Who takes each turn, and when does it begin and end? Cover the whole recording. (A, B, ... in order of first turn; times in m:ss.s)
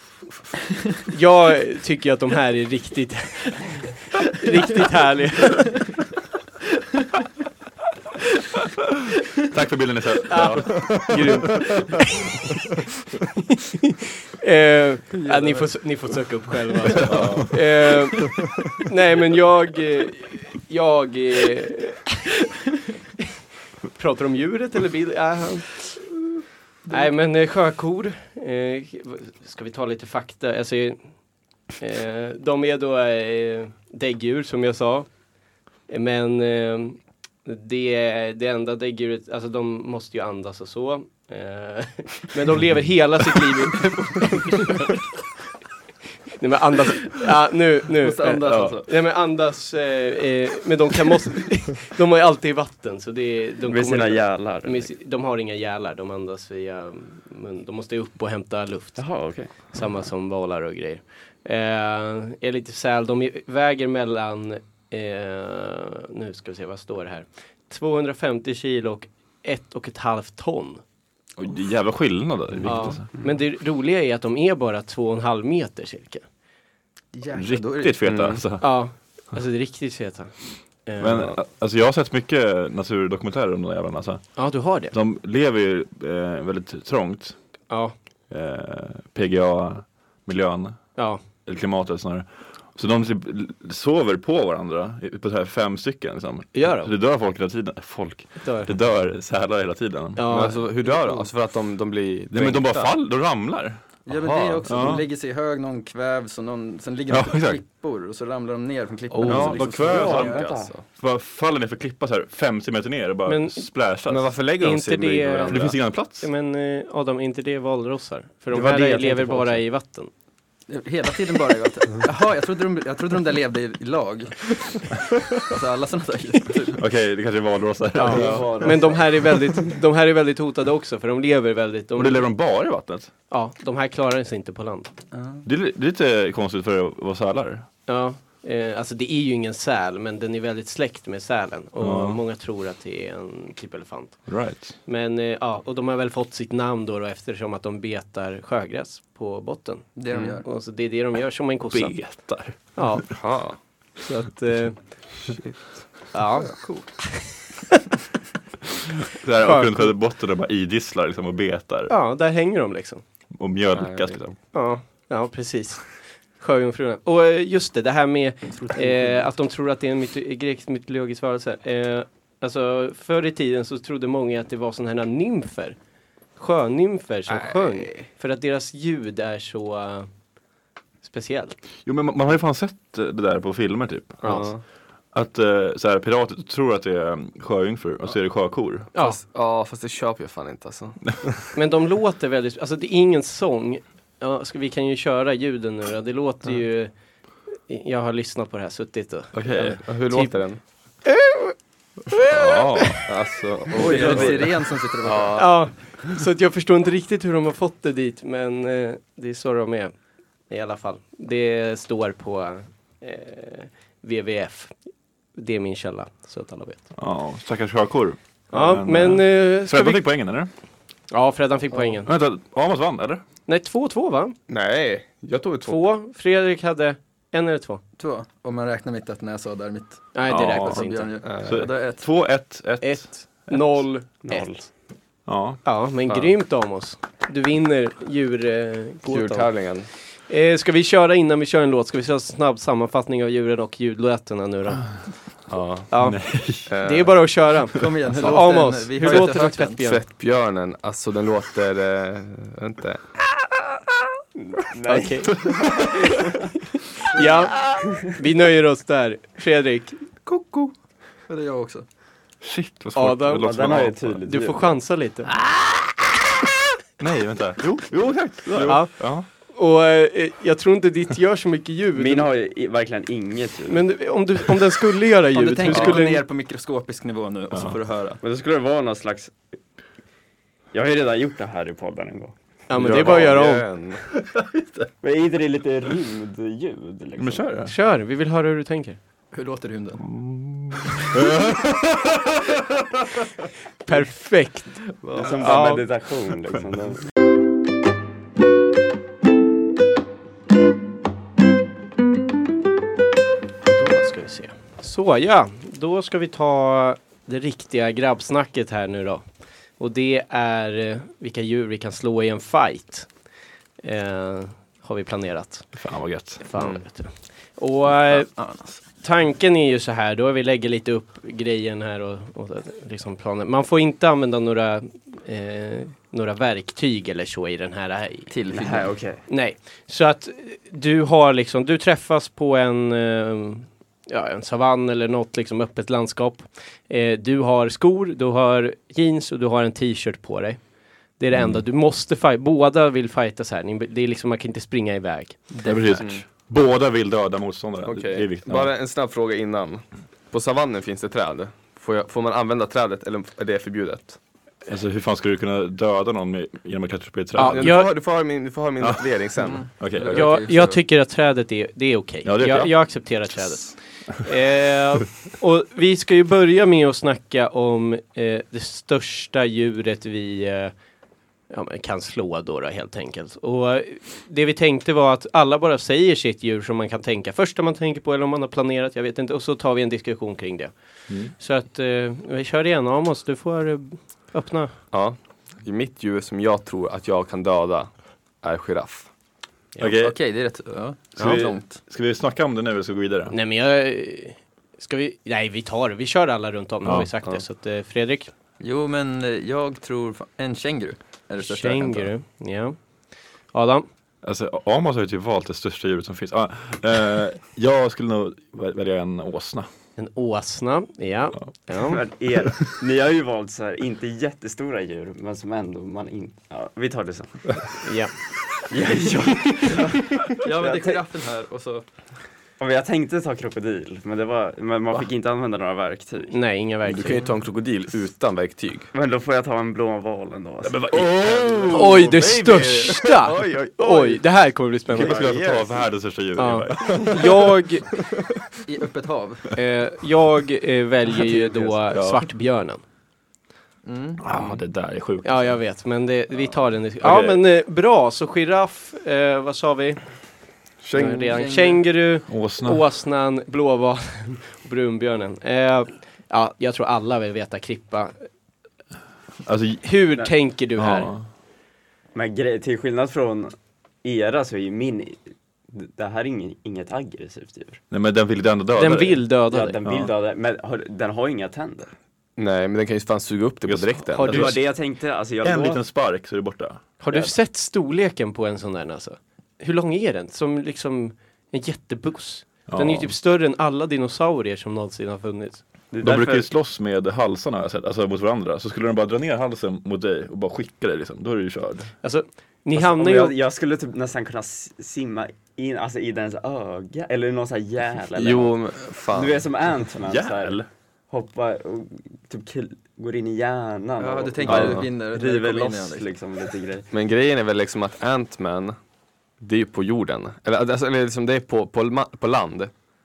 0:01.1-0:05.8 A
0:09.4-0:11.9 B
0:10.3-0:12.3 A
0:13.5-0:22.2 A
0:15.3-0:15.6 C
0:17.1-0:17.6 B
0:24.0-0:26.1 A
0:26.9-0:31.1 A
0:31.8-0:35.1 A
0:35.9-0:45.0 A
0:46.4-0:59.1 A
0:48.0-0:48.9 C
0:48.5-0:48.8 B
0:53.6-0:54.9 D
0:59.0-0:59.5 D
0:59.7-1:10.8 A
1:11.4-1:13.1 B
1:12.6-1:16.2 A
1:17.1-1:18.0 C
1:17.4-1:18.8 B
1:18.0-1:18.4 E
1:18.6-1:21.4 A
1:21.0-1:27.4 B
1:24.4-1:25.0 A
1:27.7-1:28.0 A
1:28.3-1:40.5 B
1:31.0-1:31.2 A
1:36.5-1:36.9 A
1:38.4-1:38.7 A
1:40.2-1:41.3 A
1:40.3-1:42.9 E
1:42.3-1:44.1 B
1:44.1-1:50.6 C
1:44.2-1:44.6 E
1:44.6-1:45.0 B
1:47.1-1:47.6 B
1:49.2-1:54.3 B
1:49.3-1:50.9 E
1:49.4-1:50.7 D
1:53.3-1:53.6 A
1:54.1-1:55.8 E
1:54.6-2:00.1 A
1:55.5-1:56.3 B
1:58.6-1:59.6 D
2:00.7-2:04.9 C
2:05.5-2:06.8 C
2:06.8-2:09.0 B
2:08.0-2:12.3 A
2:08.1-2:09.6 D
2:12.0-2:13.1 B
2:13.3-2:14.9 A
2:15.1-2:15.4 C
2:15.4-2:17.7 B
2:17.9-2:33.3 A
2:21.8-2:22.2 B
2:24.3-2:24.8 B
2:30.0-2:30.5 C
2:30.1-2:30.4 E
2:31.7-2:32.7 B
2:33.2-2:33.6 E
2:34.0-2:34.8 A
2:36.1-2:37.5 A
2:36.6-2:36.9 C
2:39.1-2:41.9 B
2:39.4-2:40.0 A
2:41.9-2:43.0 A
2:43.3-2:44.4 B
2:43.8-2:44.2 E
2:44.5-2:55.8 A
2:56.4-3:00.1 A
2:57.3-2:58.1 E
3:01.0-3:01.6 A
3:01.8-3:04.5 B
3:04.2-3:04.5 A
3:04.2-3:04.6 E
3:05.1-3:08.9 B
3:08.9-3:09.2 A
3:08.9-3:11.0 E
3:11.5-3:16.9 A
3:17.5-3:20.4 A
3:19.3-3:19.8 B
3:19.6-3:20.6 E
3:21.0-3:21.6 A
3:22.1-3:23.0 A
3:22.3-3:23.0 B
3:23.0-3:25.6 E
3:23.7-3:25.5 C
3:23.8-3:24.4 A
3:25.4-3:29.9 A
3:30.5-3:34.8 A
3:35.4-3:36.9 A
3:37.0-3:40.5 B
3:38.5-3:40.1 A
3:41.1-3:42.1 A
3:42.0-3:43.2 B
3:43.5-3:44.4 A
3:44.5-3:45.8 E
3:45.6-3:47.8 A
3:48.0-3:52.1 C
3:50.1-3:51.1 A
3:50.3-3:50.9 B
3:51.2-3:51.7 E
3:51.4-3:53.8 B
3:52.8-3:54.7 A
3:54.2-3:54.7 D
3:55.3-3:55.6 B
3:55.6-3:59.5 A
3:56.1-3:56.3 E
3:59.0-3:59.9 E
4:00.3-4:05.1 A
4:05.5-4:05.9 E
4:05.9-4:10.0 A
4:06.0-4:06.7 B
4:06.7-4:07.2 E
4:07.8-4:09.8 C
4:09.0-4:13.1 E
4:14.4-4:16.4 D
4:14.9-4:15.3 A
4:15.5-4:15.9 B
4:17.1-4:20.0 A
4:20.3-4:20.7 C
4:21.3-4:21.8 C
4:22.4-4:24.2 B
4:23.0-4:23.7 A
4:23.4-4:24.8 D
4:24.2-4:25.3 A
4:25.4-4:25.9 B
4:27.0-4:29.3 B
4:28.6-4:32.3 A
4:32.0-4:33.9 D
4:33.7-4:36.2 A
4:35.3-4:38.2 C
4:35.7-4:36.0 E
4:38.2-4:39.4 D
4:40.7-4:42.4 D
4:42.7-4:43.7 A
4:42.7-4:44.1 E
4:44.1-4:44.9 B
4:45.0-4:47.5 D
4:47.2-4:47.7 B
4:47.7-4:49.0 A
4:49.3-4:50.1 C
4:50.1-4:52.6 B
4:53.8-4:55.9 A
4:55.0-4:55.5 C
4:55.2-4:57.0 D
5:03.7-5:09.2 A
5:09.8-5:13.1 A
5:13.8-5:15.8 A
5:15.7-5:16.5 B
5:16.4-5:18.3 A
5:16.6-5:16.8 E
5:18.1-5:18.8 C
5:19.0-5:28.4 A
5:28.3-5:28.9 C
5:28.5-5:29.2 D
5:29.3-5:40.6 A
5:41.2-5:45.5 A
5:45.5-5:46.0 C
5:45.6-5:48.7 B
5:45.9-5:46.2 E
5:47.8-5:54.2 E
5:54.7-5:57.9 B
5:57.3-5:57.9 A
5:57.5-5:59.7 E
5:58.8-6:00.4 B
5:59.4-6:00.8 C
6:00.1-6:10.8 A
6:02.2-6:03.0 B
6:11.5-6:24.8 A
6:24.9-6:29.1 E
6:29.8-6:30.2 B
6:30.0-6:31.8 C
6:31.2-6:33.3 B
6:33.3-6:38.3 A
6:36.8-6:37.1 B
6:38.6-6:42.1 C
6:41.4-6:42.8 A
6:43.5-6:43.9 A
6:44.2-6:49.7 B
6:50.0-6:52.0 A
6:51.9-6:57.8 D
6:57.8-6:58.1 A
6:58.7-7:01.0 D
6:59.7-7:01.8 C
7:02.6-7:06.4 D
7:06.3-7:07.3 A
7:06.8-7:08.9 E
7:08.9-7:11.7 D
7:10.6-7:13.1 B
7:11.7-7:12.0 E
7:11.7-7:15.2 A
7:12.6-7:14.2 E
7:14.9-7:15.9 E
7:14.9-7:17.6 B
7:16.4-7:17.9 A
7:18.7-7:19.5 C
7:19.5-7:22.8 A
7:21.3-7:21.7 C
7:21.9-7:22.2 B
7:23.8-7:24.2 C
7:24.2-7:25.6 B
7:25.2-7:30.0 A
7:27.0-7:27.4 B
7:30.8-7:31.4 E
7:30.9-7:38.3 A
7:31.1-7:31.8 C
7:32.3-7:32.8 B
7:39.4-7:40.0 B
7:39.8-7:41.1 A
7:40.8-7:41.3 B
7:42.2-7:47.8 D
7:47.9-7:49.3 B
7:48.8-7:49.8 A
7:49.5-7:51.9 D
7:49.8-7:50.1 B
7:52.4-7:54.5 E
7:53.6-7:54.7 B
7:54.2-7:54.5 A
7:54.2-7:55.8 D
7:55.4-7:56.9 B
7:57.0-8:05.6 A
8:02.7-8:03.1 B
8:05.9-8:06.5 D
8:06.0-8:11.9 B
8:12.0-8:13.4 A
8:12.7-8:18.6 D
8:18.2-8:19.4 E
8:19.1-8:26.9 D
8:20.1-8:20.7 B
8:24.0-8:26.1 C
8:24.4-8:24.9 E
8:26.9-8:28.8 E
8:29.4-8:32.7 E